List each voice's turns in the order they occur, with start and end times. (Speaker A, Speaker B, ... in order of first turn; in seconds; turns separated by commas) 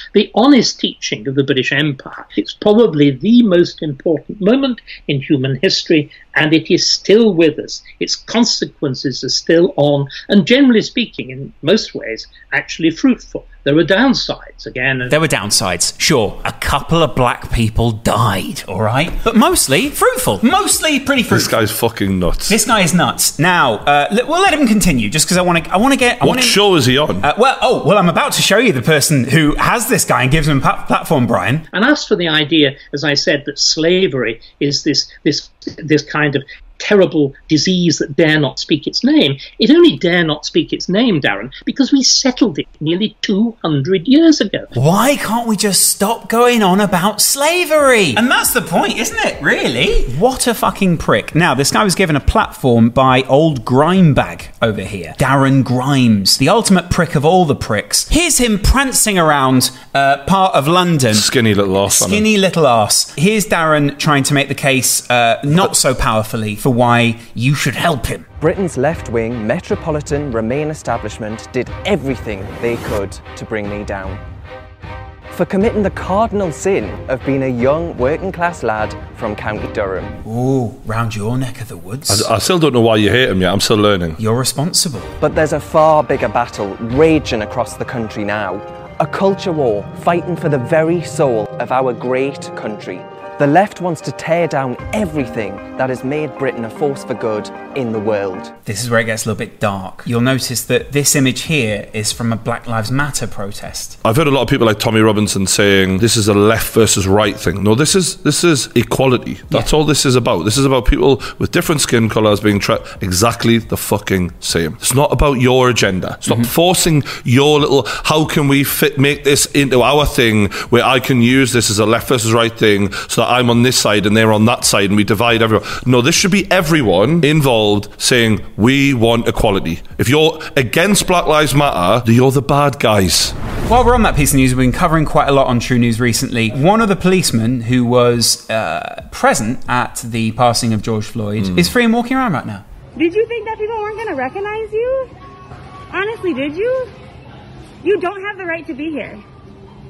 Speaker A: 0.1-15.2, Speaker B: 15.1-21.5, Speaker C: 21.3-22.6, Speaker B: 22.5-26.6, Speaker C: 26.2-27.2, Speaker B: 27.2-31.6, Speaker A: 31.7-44.7, Speaker B: 44.7-61.3, Speaker C: 61.1-62.3, Speaker B: 61.9-68.3, Speaker D: 68.4-74.2, Speaker D: 75.3-80.2, Speaker B: 80.2-82.3, Speaker C: 82.1-84.2, Speaker B: 84.2-85.1, Speaker D: 85.2-98.5, Speaker B: 98.7-104.0, Speaker C: 104.0-133.3, Speaker B: 133.7-142.6, Speaker C: 141.4-141.7, Speaker E: 143.0-145.1, Speaker E: 145.9-146.9, Speaker E: 147.8-149.2